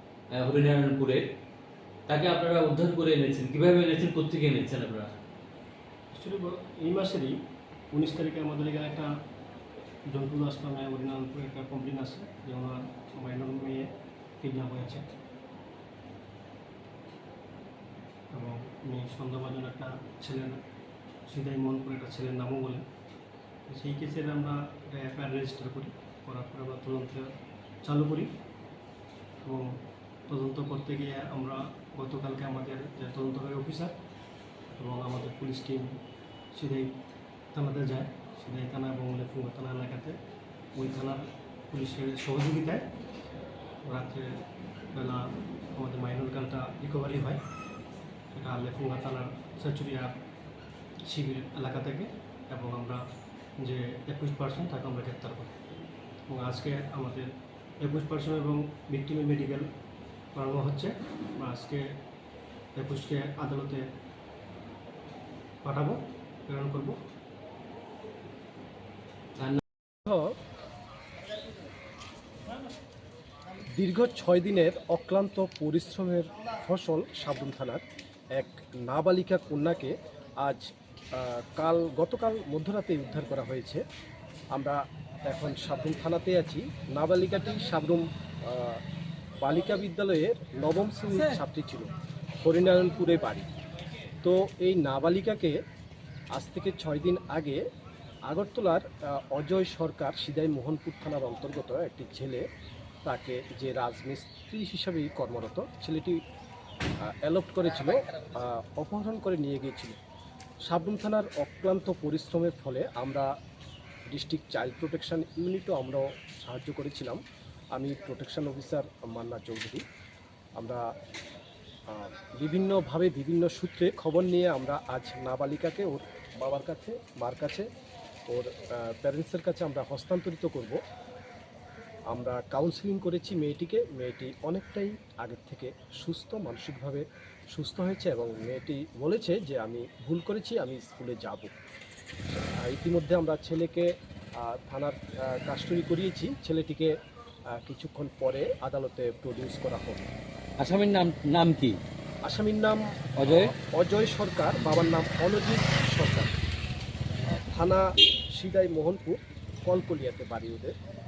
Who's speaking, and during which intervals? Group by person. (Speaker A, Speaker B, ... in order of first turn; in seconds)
Speaker A: 0.3-1.2, 2.1-5.1, 150.6-151.8, 153.2-153.5
Speaker B: 6.1-7.3, 7.9-9.1, 10.1-15.0, 18.3-20.6, 21.3-22.9, 23.7-27.3, 27.8-28.3, 29.4-29.7, 30.3-33.9, 34.8-36.0, 36.5-36.9, 37.5-40.2, 40.7-42.9, 43.9-44.4, 44.9-47.4, 48.3-50.2, 51.0-53.0, 53.6-55.5, 56.3-57.3, 57.8-59.7, 60.3-61.8, 62.8-63.8, 65.6-67.0
Speaker C: 70.0-70.3, 73.8-77.8, 78.3-83.8, 84.5-88.8, 89.4-91.9, 92.4-93.5, 94.2-95.6, 96.3-97.6, 98.3-102.5, 103.0-106.2, 107.0-110.0, 110.6-113.3, 114.1-117.2, 117.7-119.8, 120.6-120.8, 121.9-127.7, 128.3-130.8, 132.1-141.5, 142.5-146.9, 147.5-150.1, 152.2-156.3, 157.4-160.7